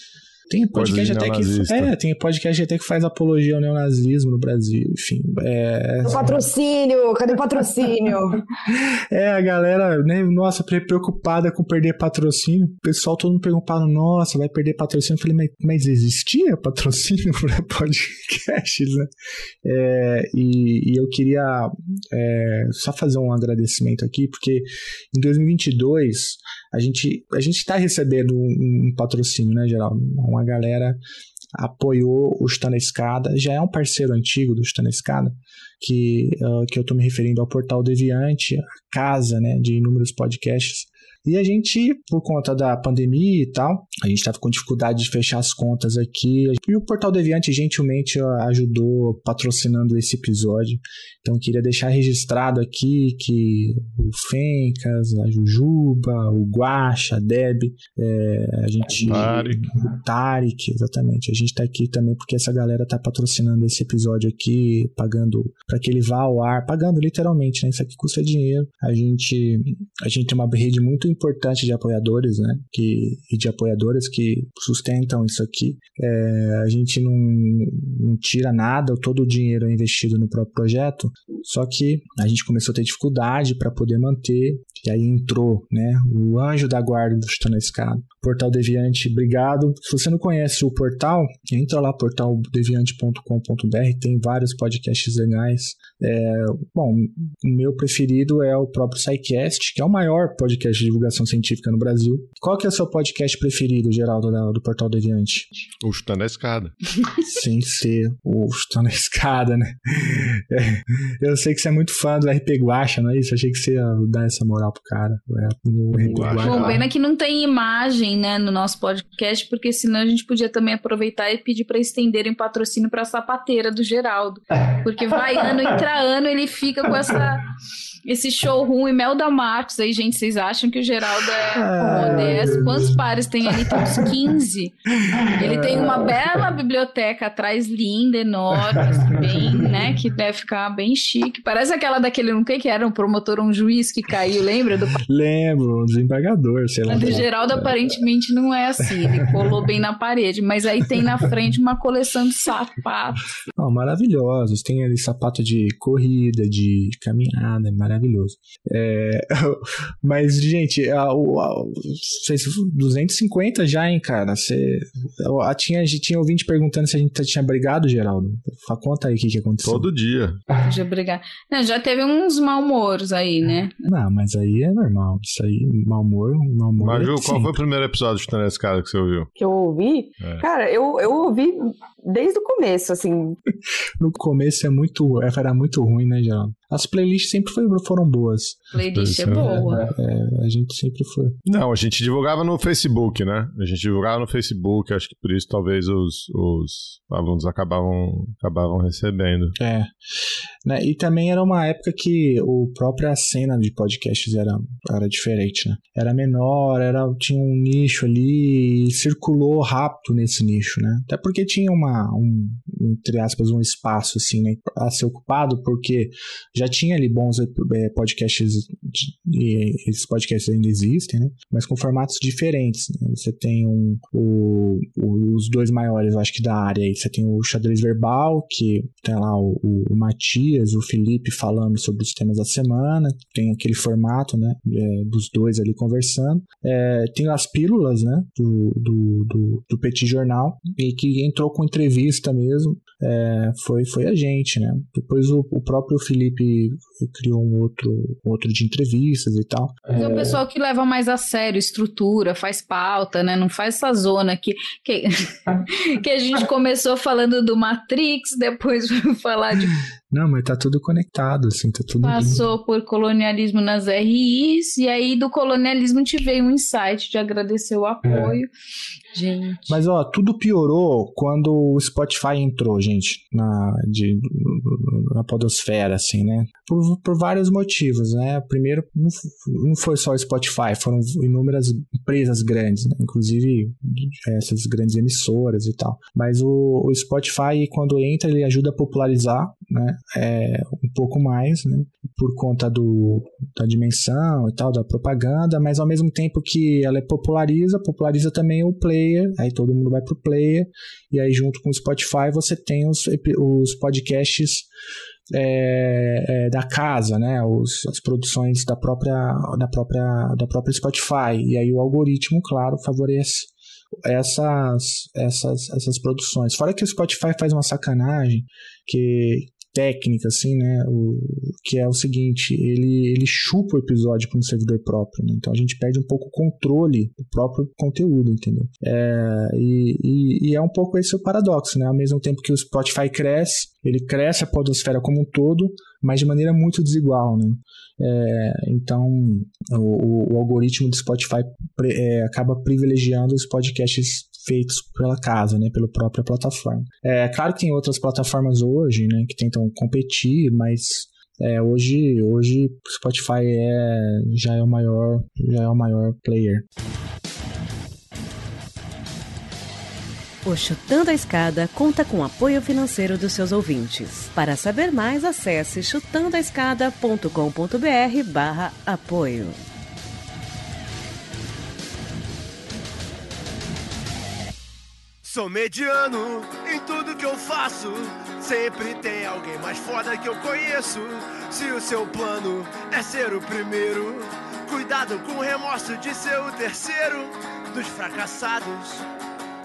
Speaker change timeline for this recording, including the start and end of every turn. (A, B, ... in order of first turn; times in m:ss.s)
0:00.5-0:06.4 A
0:00.7-0:01.9 B
0:06.0-0:08.4 C
0:08.7-0:19.1 A
0:19.6-0:31.0 A
0:31.6-1:45.5 A
0:59.0-0:59.7 B
1:45.8-1:46.7 B
1:47.2-1:56.8 A
1:55.9-1:56.8 B
1:56.4-2:07.4 D
2:08.1-2:14.7 D
2:11.6-2:13.0 A
2:13.7-2:14.0 A
2:15.1-2:16.5 A
2:15.3-2:25.0 D
2:18.8-2:19.8 A
2:25.0-2:27.9 A
2:26.9-2:33.2 D
2:29.1-2:29.5 A
2:33.6-2:49.9 A
2:49.6-2:50.4 B
2:50.6-2:53.7 D
2:53.8-2:57.6 A
2:56.8-2:59.3 B
2:59.4-3:03.4 C
3:00.2-3:00.4 B
3:04.0-3:08.6 A
3:08.7-3:09.9 D
3:08.9-3:09.8 B
3:09.4-3:11.4 A
3:11.4-3:19.6 B
3:19.6-3:19.9 A
3:20.6-4:10.4 A
4:10.0-4:19.8 D
4:20.1-4:22.4 A
4:22.0-4:28.5 D
4:28.0-4:28.4 A
4:29.1-4:29.8 D
4:29.7-5:04.7 A
5:05.3-5:13.5 A
5:14.0-5:56.6 A
6:00.4-6:09.6 E
6:15.2-6:29.1 F